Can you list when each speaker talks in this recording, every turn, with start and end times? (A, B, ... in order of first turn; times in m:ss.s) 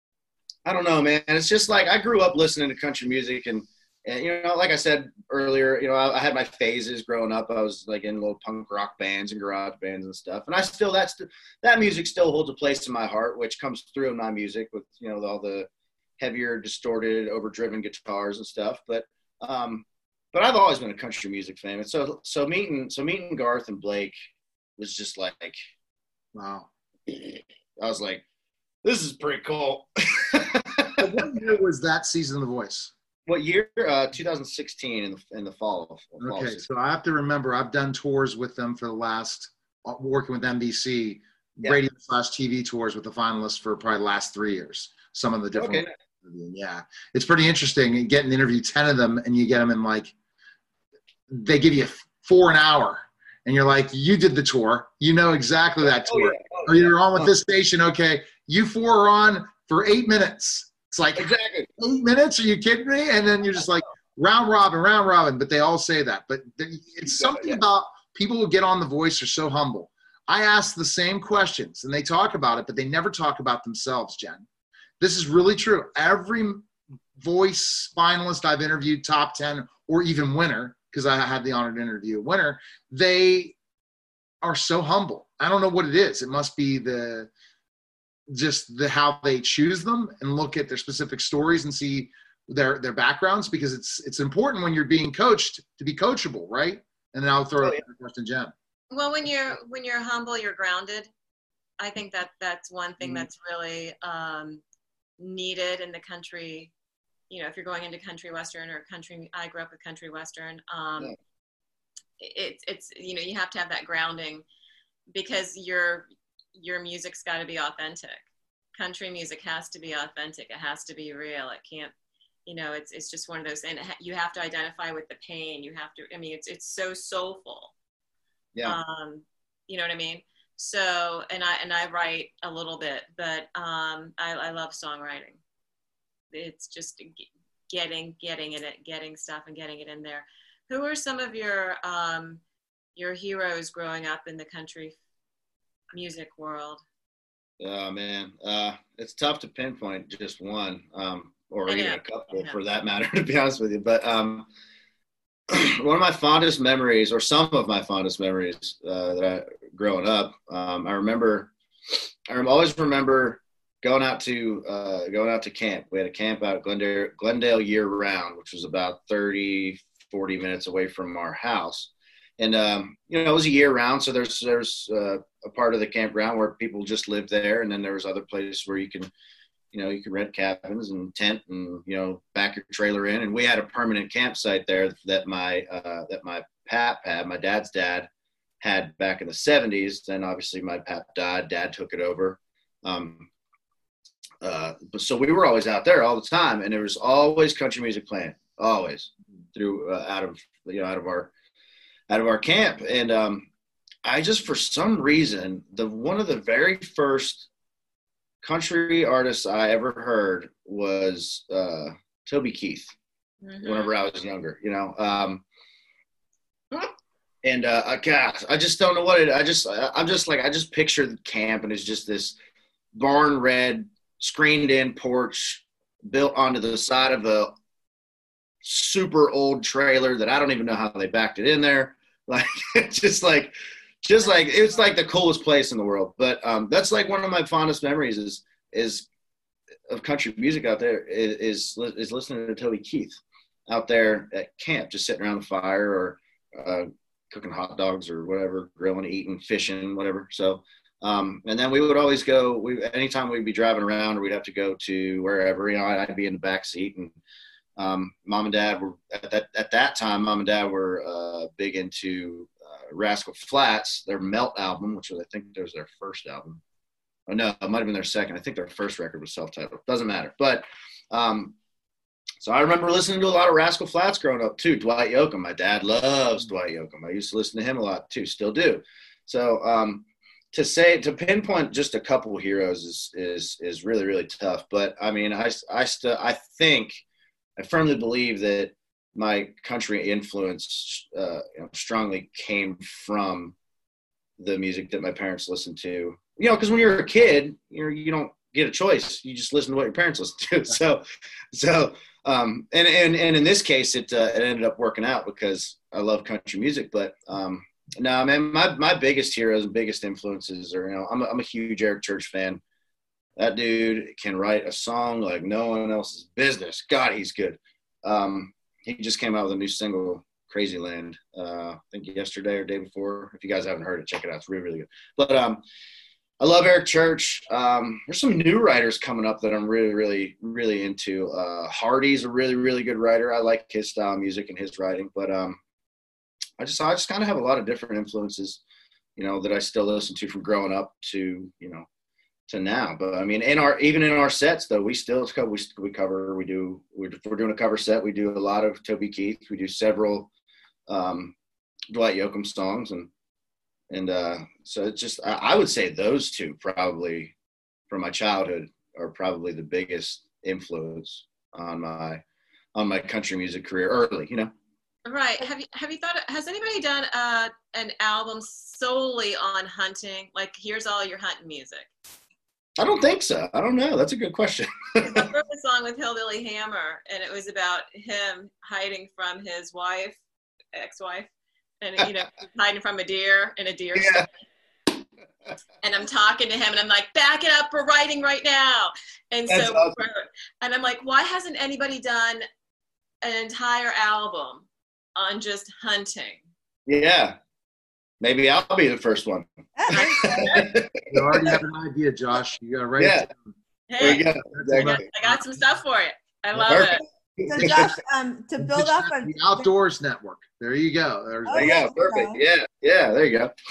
0:00.6-0:15.7 A
0:16.2-0:24.1 A
0:24.8-0:25.6 A
0:26.3-0:26.7 B
0:27.1-0:28.2 A
0:28.8-0:31.2 A
0:31.0-0:32.9 B
0:33.3-0:36.6 A
0:36.2-0:50.1 B
0:45.5-0:45.9 A
0:51.3-1:14.4 B
0:55.8-0:57.3 A
1:01.2-1:01.7 A
1:07.1-1:07.6 A
1:15.0-1:16.6 B
1:17.2-1:23.5 B
1:24.4-1:27.3 B
1:28.3-1:38.5 B
1:38.9-1:41.1 C
1:41.8-1:44.6 C
1:45.2-1:46.7 C
1:47.3-1:51.1 C
1:52.2-1:54.4 C
1:55.1-1:58.2 C
1:58.8-2:01.9 C
2:02.4-2:07.7 C
2:08.6-2:15.4 C
2:16.3-2:22.4 C
2:23.0-2:25.0 C
2:25.9-2:26.8 C
2:27.6-2:34.5 A
2:31.7-2:32.6 C
2:35.5-2:59.1 A
2:59.7-3:08.1 A
3:08.6-3:13.3 A
3:14.4-3:21.3 A
3:22.1-3:23.5 A
3:24.0-3:27.5 A
3:28.4-3:32.9 A
3:33.4-3:34.0 C
3:33.6-3:35.4 A
3:37.4-3:42.3 A
3:42.9-3:47.5 A
3:48.6-3:59.1 A
3:54.2-3:54.5 C
3:59.9-4:17.1 A
4:17.8-4:26.6 A
4:27.3-4:31.5 A
4:32.4-4:47.0 A
4:47.6-4:53.5 A
4:54.4-5:12.6 A
5:13.4-5:25.6 A
5:26.4-5:35.6 A
5:36.6-5:38.6 A
5:39.2-5:41.8 A
5:42.5-5:50.3 A
5:50.9-5:51.3 A
5:51.9-5:53.1 A
5:53.9-5:57.3 A
5:57.9-6:02.2 A
6:02.7-6:04.5 A
6:05.0-6:11.9 C
6:12.8-6:15.3 A
6:15.0-6:20.2 C
6:20.7-6:21.3 C
6:21.8-6:24.3 C
6:23.9-6:24.2 A
6:25.8-6:32.4 C
6:29.5-6:30.0 A
6:33.2-6:36.4 C
6:36.9-6:37.4 A
6:38.2-6:41.5 A
6:39.8-6:40.6 D
6:39.9-6:40.7 C
6:41.1-6:45.4 B
6:43.0-6:43.3 A
6:43.9-6:44.2 C
6:44.0-6:45.1 A
6:44.8-6:47.0 C
6:46.5-6:47.9 A
6:47.4-6:49.6 D
6:47.5-6:47.9 B
6:48.6-6:51.7 B
6:51.4-6:52.4 D
6:51.5-6:53.5 A